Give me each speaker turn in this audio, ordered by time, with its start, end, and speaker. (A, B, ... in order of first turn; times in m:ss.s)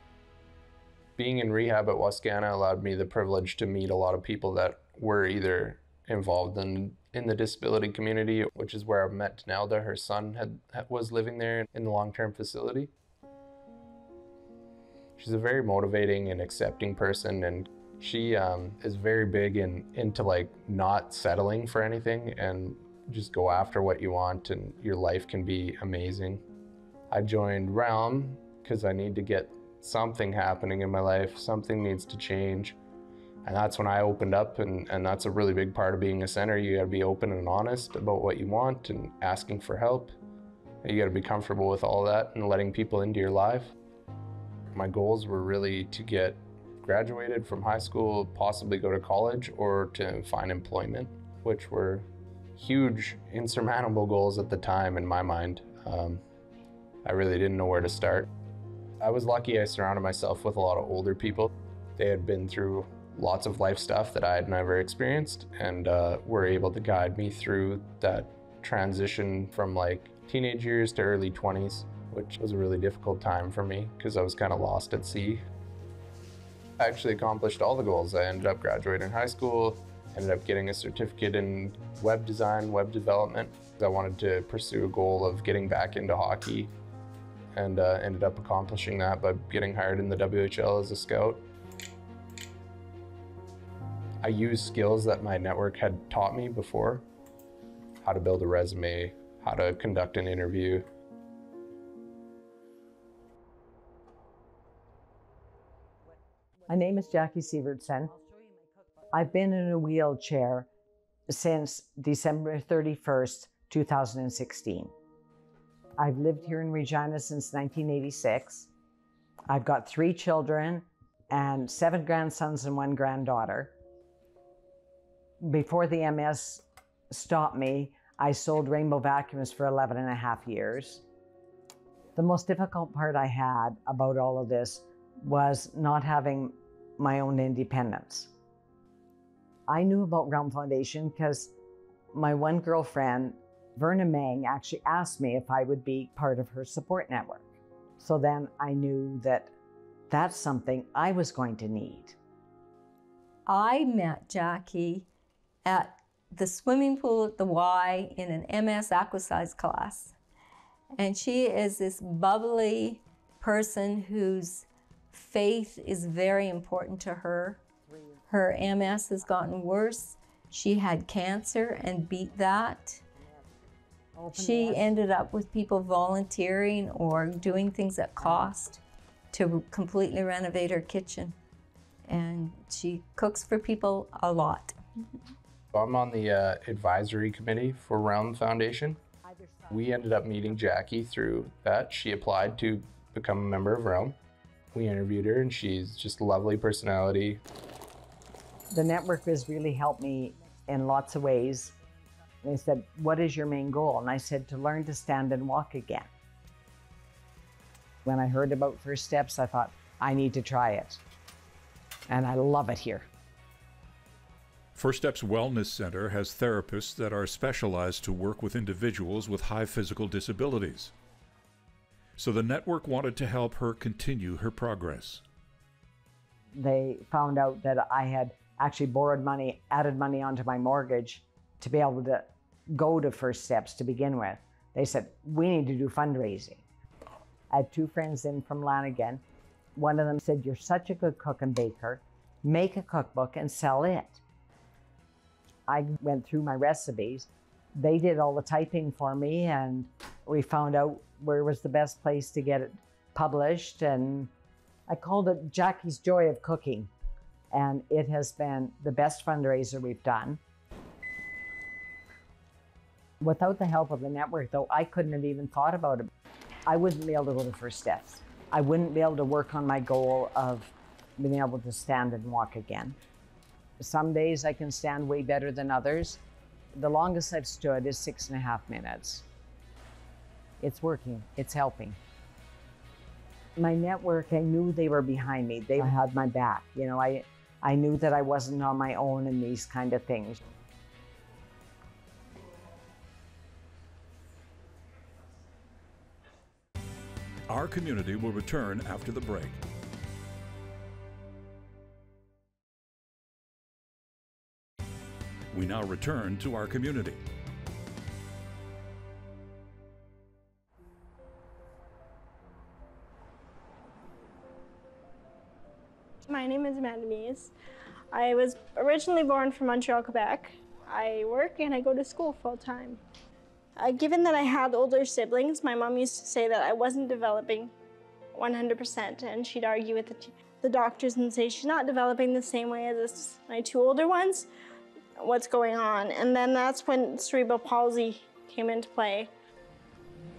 0:01.2-0:12.9 A
0:15.2-0:26.4 A
0:27.1-0:32.8 A
0:33.4-0:40.1 A
0:40.8-0:43.7 A
0:44.7-0:52.1 A
0:52.6-0:56.2 A
0:57.0-0:58.3 A
0:59.0-1:15.4 A
1:16.8-1:26.7 A
1:27.5-1:31.5 A
1:34.2-1:37.1 A
1:38.0-1:40.9 A
1:46.7-1:48.2 B
1:49.1-1:50.7 B
1:51.3-1:54.9 B
1:56.0-1:58.7 B
1:59.5-2:03.7 B
2:05.4-2:11.0 B
2:12.2-2:18.3 B
2:19.7-2:21.5 B
2:22.1-2:27.4 B
2:28.0-2:29.5 B
2:30.1-2:32.2 B
2:33.5-2:35.1 C
2:35.6-2:40.2 C
2:41.0-2:47.6 C
2:47.8-2:48.2 B
2:48.3-2:53.0 C
2:54.2-2:54.9 B
2:54.3-2:58.8 C
2:58.2-2:58.5 B
2:59.3-3:01.4 C
3:02.1-3:05.2 C
3:05.7-3:09.0 A
3:09.3-3:09.7 B
3:09.7-3:14.2 A
3:14.7-3:17.4 A
3:18.7-3:21.8 B
3:22.4-3:26.1 B
3:28.0-3:31.0 B
3:32.1-3:33.1 B
3:34.8-3:40.9 D
3:42.2-3:45.2 D
3:46.5-3:56.6 B
3:57.5-3:59.2 B
3:59.8-4:04.2 B
4:05.7-4:14.3 B
4:14.9-4:16.9 B
4:17.5-4:20.4 B
4:23.2-4:26.1 B
4:26.7-4:33.0 B
4:33.8-4:36.2 B
4:36.8-4:39.2 B
4:40.6-4:42.0 B
4:43.6-4:50.4 B
4:57.5-4:59.6 D
5:05.5-5:07.2 D
5:16.2-5:17.5 E
5:18.1-5:23.0 E
5:23.8-5:27.7 E
5:28.3-5:34.5 E
5:35.2-5:39.3 E